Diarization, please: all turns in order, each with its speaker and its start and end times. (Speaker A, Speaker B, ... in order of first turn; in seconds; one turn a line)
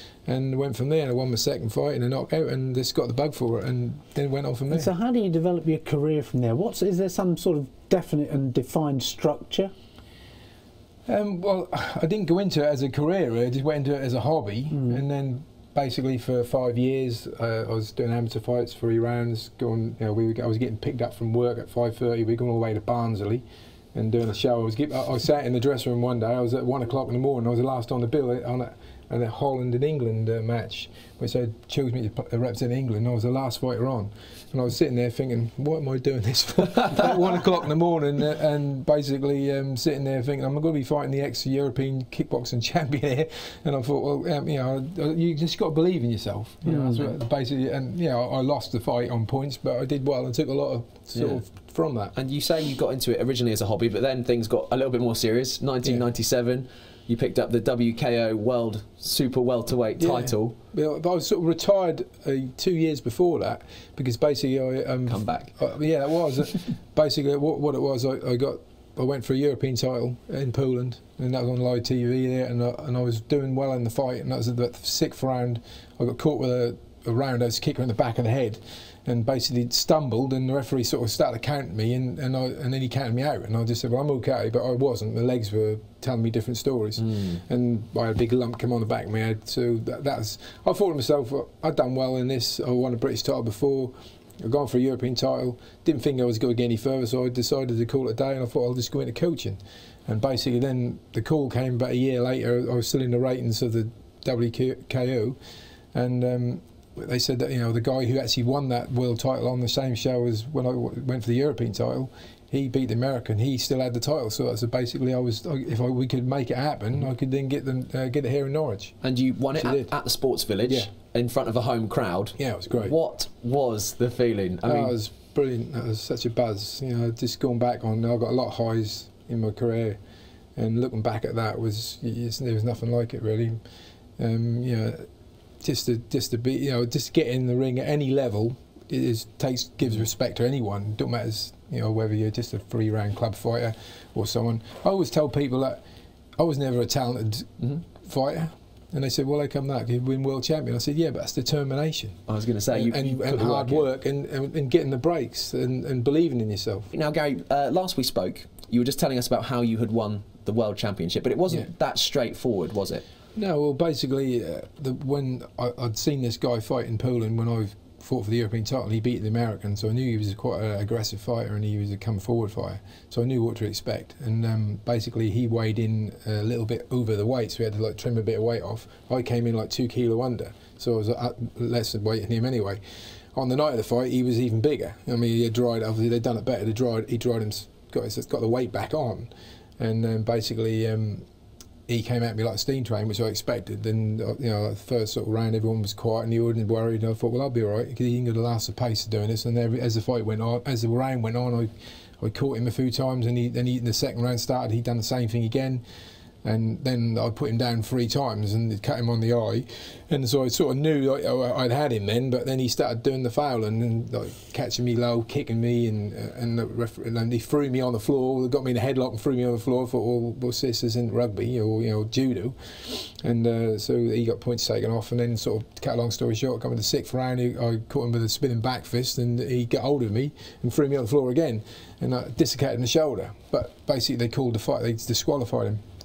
Speaker A: 0.2-4.9
Speaker B: 4.7-9.7
Speaker A: 11.1-52.1
Speaker B: 46.7-47.0
Speaker C: 51.1-51.4
Speaker C: 52.1-60.5
Speaker A: 60.0-105.4
Speaker C: 65.0-65.5
Speaker A: 105.9-119.0
Speaker C: 119.0-125.0
Speaker A: 119.5-119.9
Speaker A: 122.4-122.9
Speaker A: 124.6-130.0
Speaker A: 130.6-133.6
Speaker A: 134.2-135.1
Speaker A: 135.6-145.8
Speaker A: 146.4-156.9
Speaker C: 152.3-153.9
Speaker C: 156.9-163.0
Speaker A: 163.3-182.8
Speaker A: 183.3-191.2
Speaker A: 191.9-205.8
Speaker A: 206.4-235.8